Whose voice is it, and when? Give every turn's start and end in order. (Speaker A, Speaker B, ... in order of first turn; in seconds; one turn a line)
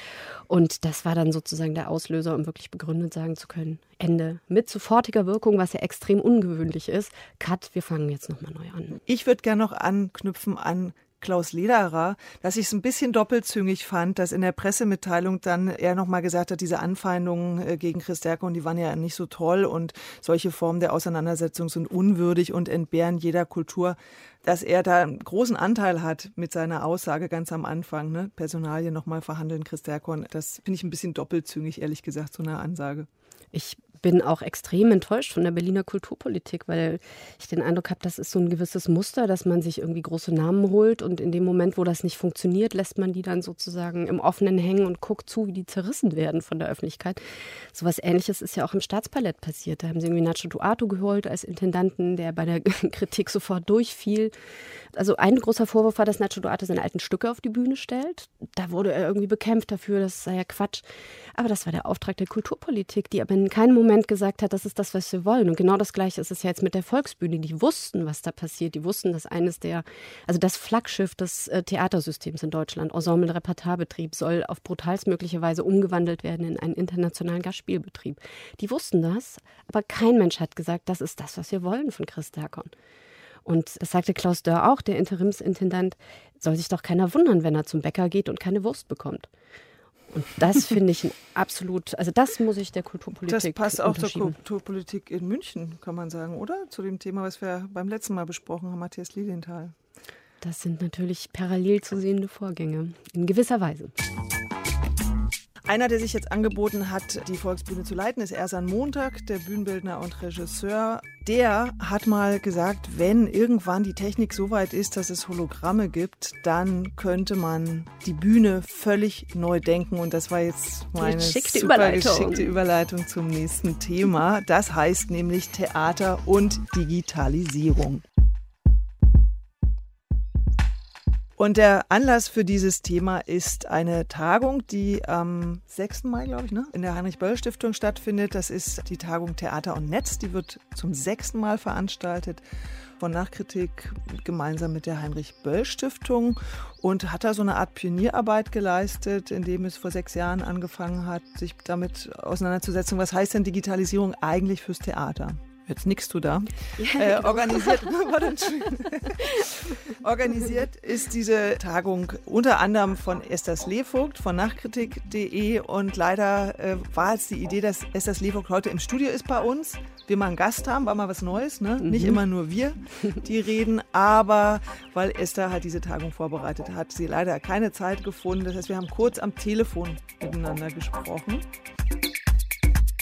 Speaker A: 0.5-9.0
Speaker B: 9.1-33.1
Speaker A: 33.5-47.2
Speaker A: 47.7-54.3
Speaker A: 54.9-82.7
Speaker A: 83.5-89.3
Speaker A: 90.1-94.3
Speaker B: 93.3-99.7
Speaker A: 100.4-103.9
Speaker B: 105.7-128.0
Speaker A: 121.0-122.5
Speaker B: 131.4-142.4
Speaker B: 143.0-181.4
Speaker A: 156.8-157.9
Speaker A: 171.9-172.2